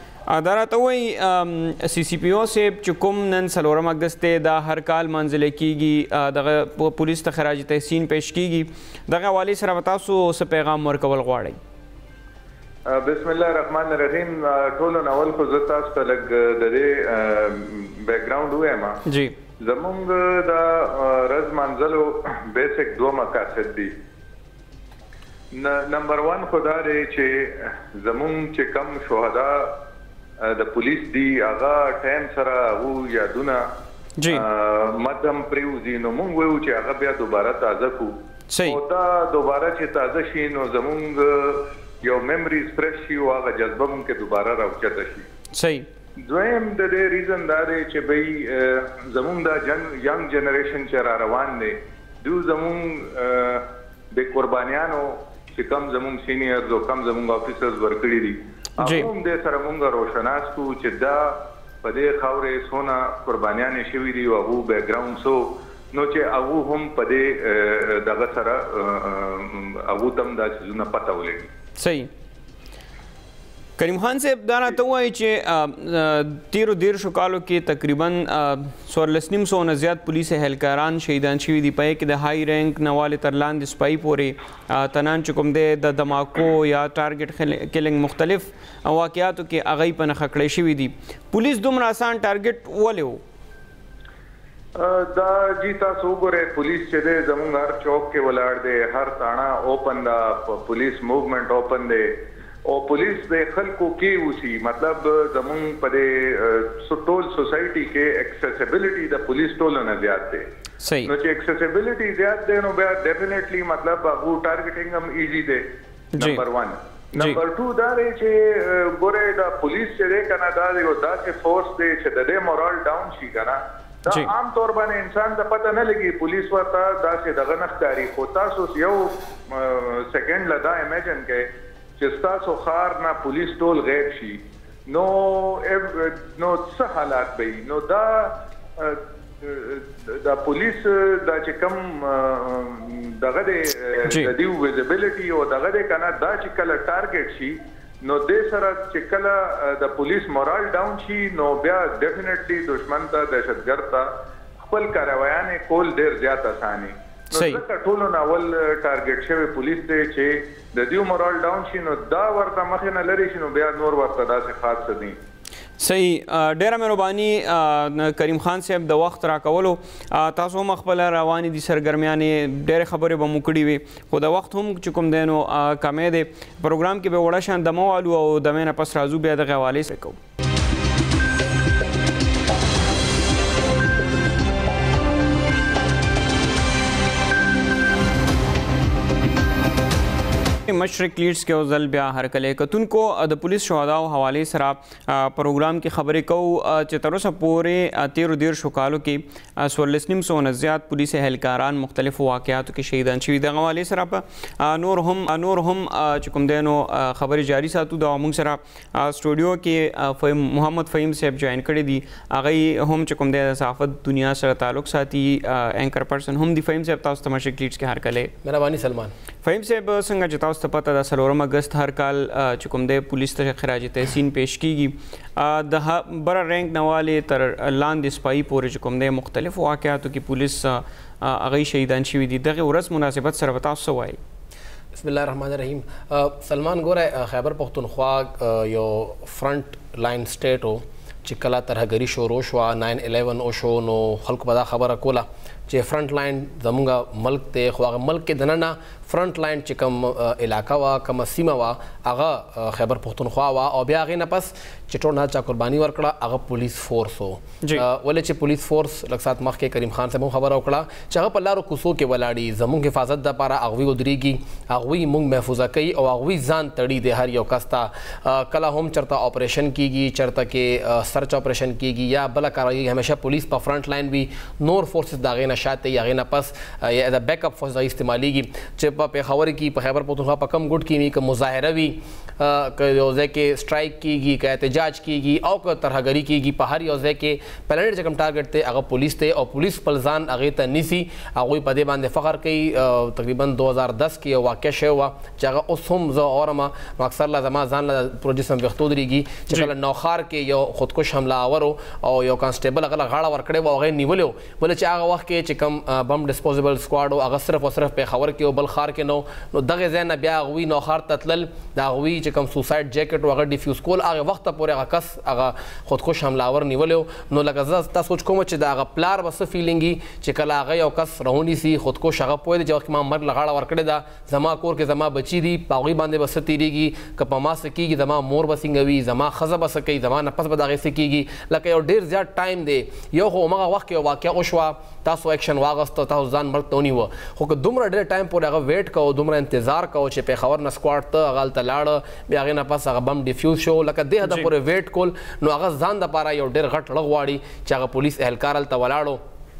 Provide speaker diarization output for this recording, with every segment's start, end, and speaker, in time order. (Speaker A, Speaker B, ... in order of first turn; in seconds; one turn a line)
Speaker A: 0.3-11.6
Speaker B: 12.9-19.0
Speaker A: 19.1-19.3
Speaker B: 19.6-23.9
Speaker B: 25.5-29.8
Speaker B: 30.4-33.6
Speaker A: 34.2-34.5
Speaker B: 34.3-45.2
Speaker A: 38.5-38.8
Speaker A: 45.5-45.9
Speaker B: 46.3-71.5
Speaker A: 58.8-59.1
Speaker A: 71.8-72.1
Speaker A: 73.8-93.2
Speaker B: 94.8-110.5
Speaker A: 110.8-111.1
Speaker B: 111.0-115.7
Speaker A: 116.2-116.4
Speaker B: 116.2-165.2
Speaker A: 157.3-157.6
Speaker A: 165.8-180.2
Speaker A: 190.7-218.3
Speaker C: 218.4-219.1
Speaker A: 219.4-234.2
Speaker C: 234.9-349.2